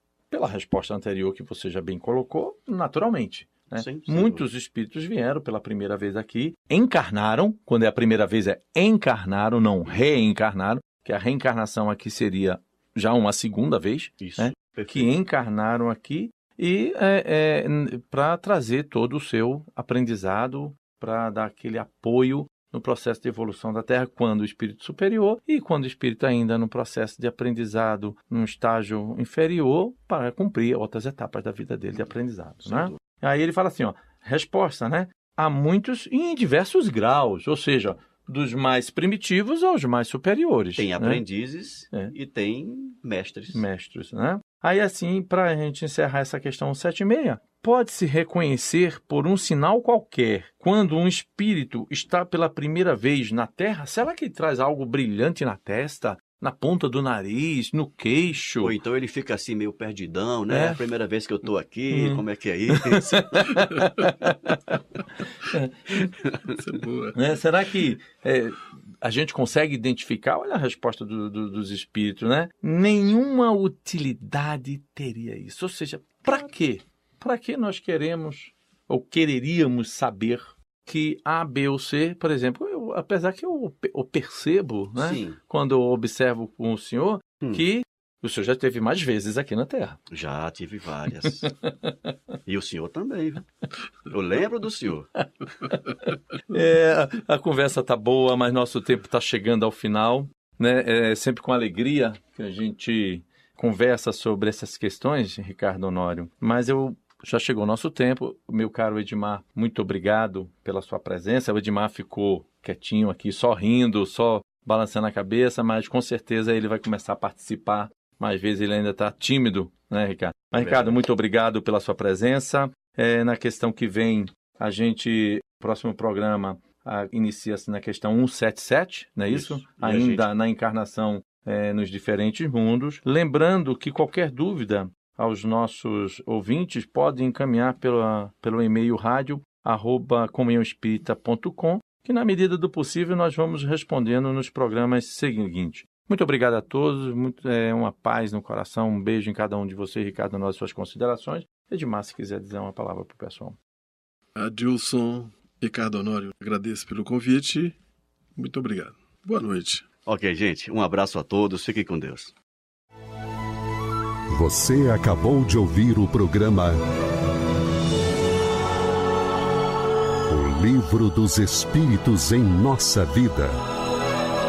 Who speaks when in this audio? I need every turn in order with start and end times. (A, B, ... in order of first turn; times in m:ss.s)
0:00.3-0:41.2 A
0:03.7-0:04.4 B
0:14.2-0:15.2 B
0:32.6-0:33.0 B
0:40.8-0:43.6 B
0:43.5-0:58.8 A
0:58.6-1:03.7 B
1:00.5-1:00.8 A
1:01.9-1:04.8 A
1:05.4-1:06.1 A
1:06.4-1:07.2 C
1:07.1-1:30.0 A
1:25.0-1:25.4 B
1:30.1-1:31.5 B
1:31.3-1:32.2 A
1:32.5-1:33.5 B
1:34.1-1:35.1 B
1:35.6-2:33.6 A
2:00.6-2:01.0 B
2:09.3-2:10.3 B
2:34.4-2:37.8 C
2:38.4-2:39.8 C
2:40.1-2:42.3 B
2:44.3-2:46.8 D
2:50.3-2:53.6 D